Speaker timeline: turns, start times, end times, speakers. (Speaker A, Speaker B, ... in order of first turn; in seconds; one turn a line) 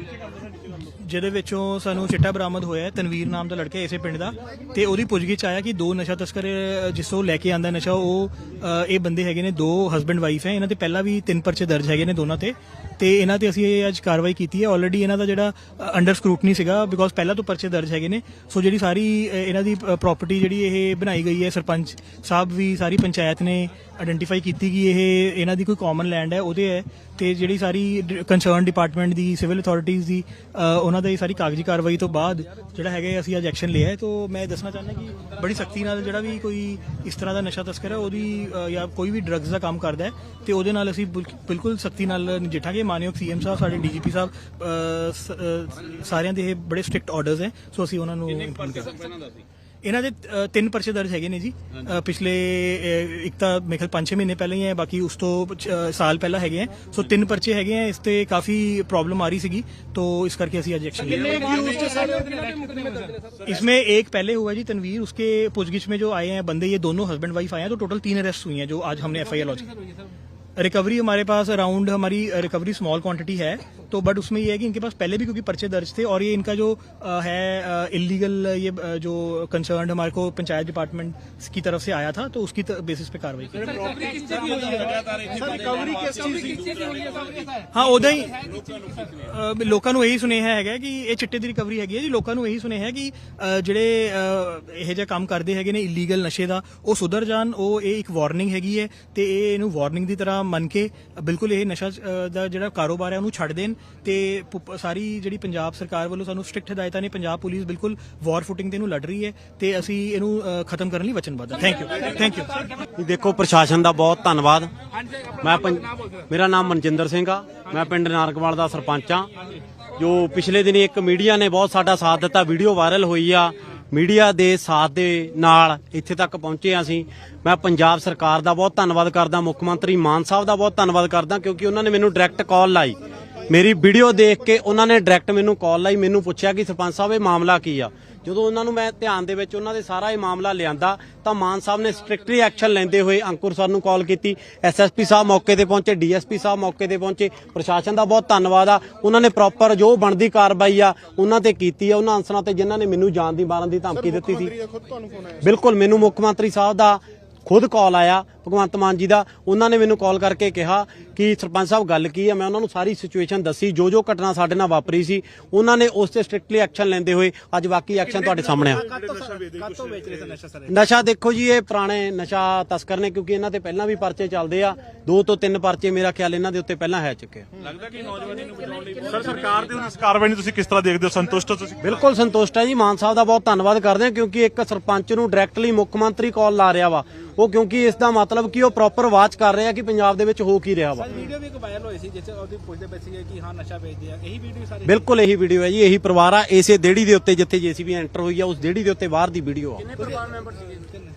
Speaker A: 0.8-49.1
Speaker A: 49.8-62.1
Speaker B: 61.5-63.2
Speaker A: 63.4-69.8
Speaker A: 70.6-84.6
Speaker B: 84.0-87.7
Speaker A: 87.7-112.6
Speaker C: 113.0-114.7
Speaker C: 115.4-119.3
Speaker C: 120.0-154.7
Speaker D: 154.7-155.3
Speaker C: 155.4-168.8
Speaker B: 168.2-170.7
Speaker C: 170.7-177.5
Speaker D: 177.7-181.9
Speaker B: 177.8-179.0
Speaker C: 181.8-191.2
Speaker B: 191.0-195.0
Speaker C: 194.8-200.3
Speaker B: 200.0-201.0